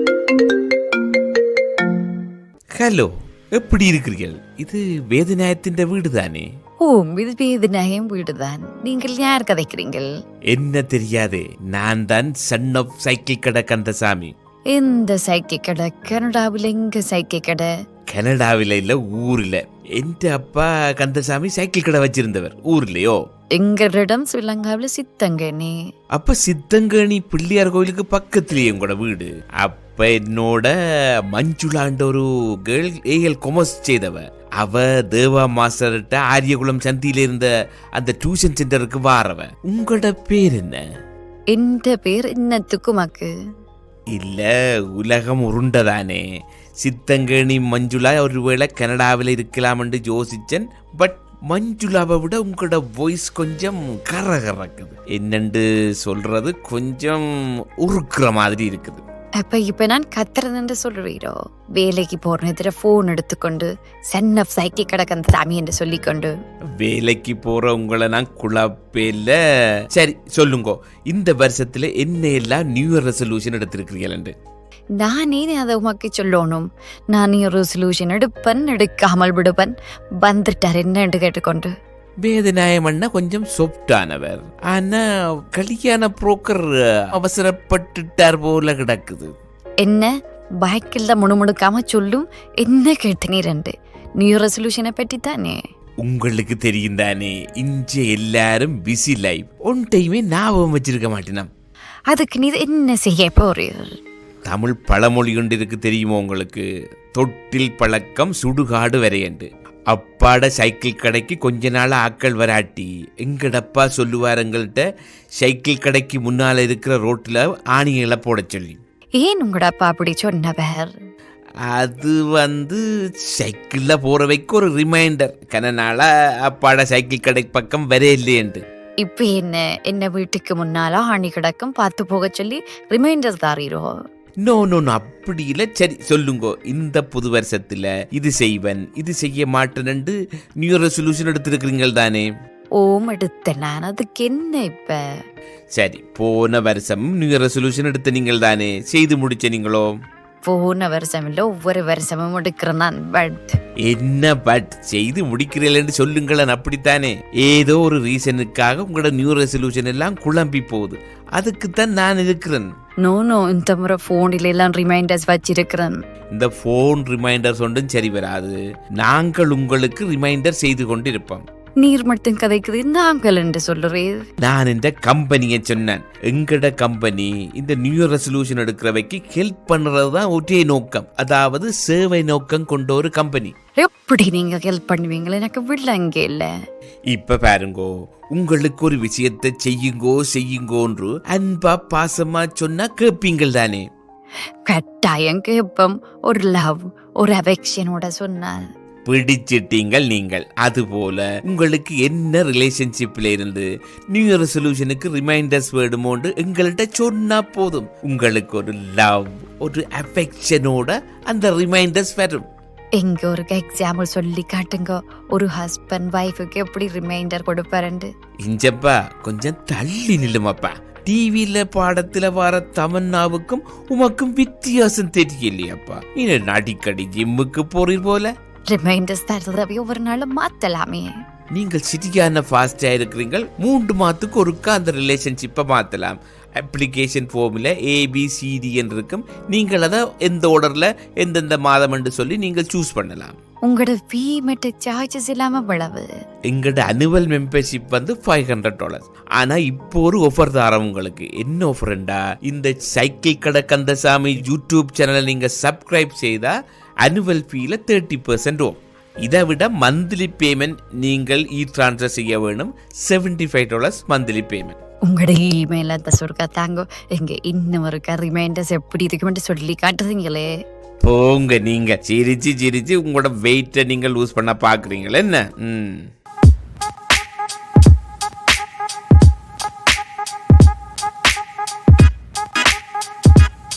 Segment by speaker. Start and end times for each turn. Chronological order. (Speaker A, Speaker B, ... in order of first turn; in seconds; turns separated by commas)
Speaker A: 2.7-6.5, Speaker B: 6.8-10.1, Speaker A: 10.5-14.3, Speaker B: 14.7-17.7, Speaker A: 18.1-23.2, Speaker B: 23.6-25.8, Speaker A: 26.1-30.7, Speaker A: 31.3-40.8, Speaker B: 41.5-43.3, Speaker A: 44.1-46.2, Speaker A: 46.8-59.0, Speaker B: 59.4-66.3, Speaker A: 66.8-74.3, Speaker B: 75.0-81.7, Speaker A: 82.2-89.3, Speaker B: 89.8-95.6, Speaker A: 96.0-101.5, Speaker B: 102.1-103.9, Speaker A: 104.5-114.8, Speaker A: 115.4-118.8, Speaker B: 119.2-120.9, Speaker A: 121.7-128.6, Speaker B: 129.0-133.9, Speaker A: 134.4-142.3, Speaker B: 142.8-145.0, Speaker A: 145.7-149.9, Speaker B: 150.4-153.6, Speaker A: 153.8-162.7, Speaker B: 163.0-166.0, Speaker A: 166.3-171.4, Speaker B: 171.8-174.2, Speaker A: 174.4-183.5, Speaker B: 183.8-186.5, Speaker A: 187.1-193.9, Speaker B: 194.7-198.6, Speaker A: 199.1-212.5, Speaker B: 213.0-218.1, Speaker A: 218.4-228.3, Speaker B: 228.7-231.1, Speaker A: 231.5-243.4, Speaker B: 243.7-246.1, Speaker A: 246.5-264.8, Speaker B: 265.1-270.5, Speaker A: 271.0-276.1